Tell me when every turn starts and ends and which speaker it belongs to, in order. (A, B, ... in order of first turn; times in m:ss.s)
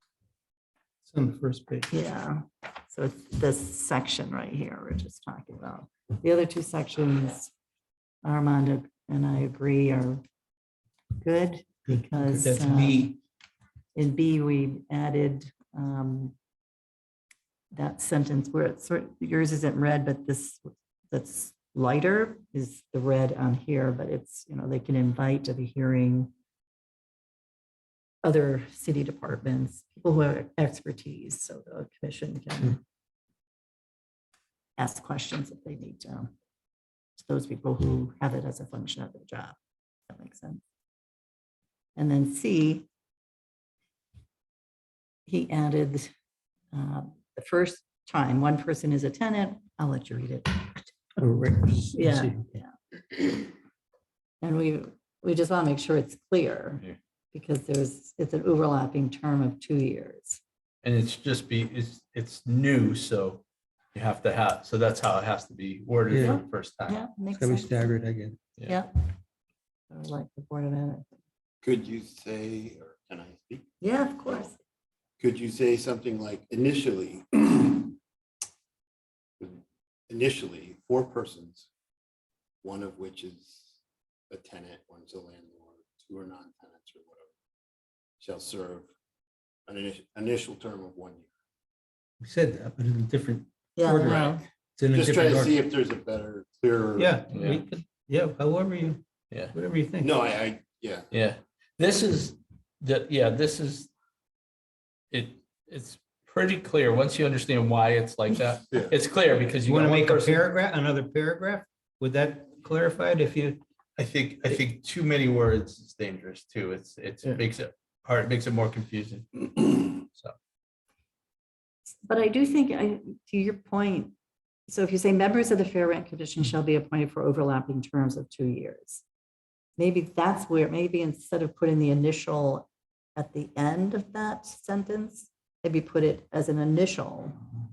0:01.1-0:01.9 A
0:01.9-0:07.5 B
0:08.2-0:10.2 B
0:11.2-0:13.1 B
0:11.9-0:13.2 A
0:14.0-0:16.4 B
0:17.7-0:26.3 B
0:28.2-0:32.8 B
0:34.8-0:36.3 B
0:37.2-0:39.6 B
0:40.1-0:40.6 B
0:42.0-0:42.9 B
0:45.3-0:46.1 B
0:46.7-0:50.9 B
0:51.2-0:52.5 A
0:51.9-0:52.7 B
0:54.4-0:56.8 B
0:57.3-1:00.4 B
1:00.8-1:03.4 C
1:03.9-1:07.0 C
1:06.1-1:06.4 A
1:06.2-1:07.9 B
1:07.4-1:08.4 A
1:08.7-1:09.1 B
1:09.9-1:11.1 B
1:11.6-1:13.6 D
1:13.8-1:14.6 B
1:15.2-1:18.0 D
1:19.4-1:21.7 D
1:22.6-1:23.8 D
1:24.3-1:27.3 D
1:28.2-1:28.9 D
1:29.7-1:31.3 D
1:32.2-1:35.6 A
1:33.8-1:34.4 B
1:34.9-1:37.2 D
1:37.0-1:39.0 A
1:37.3-1:37.6 C
1:39.5-1:40.2 A
1:40.0-1:41.1 D
1:41.1-1:43.9 C
1:45.1-1:50.4 C
1:49.6-1:53.6 A
1:54.0-2:00.4 C
2:01.9-2:04.1 B
2:04.7-2:09.0 B
2:09.8-2:17.4 B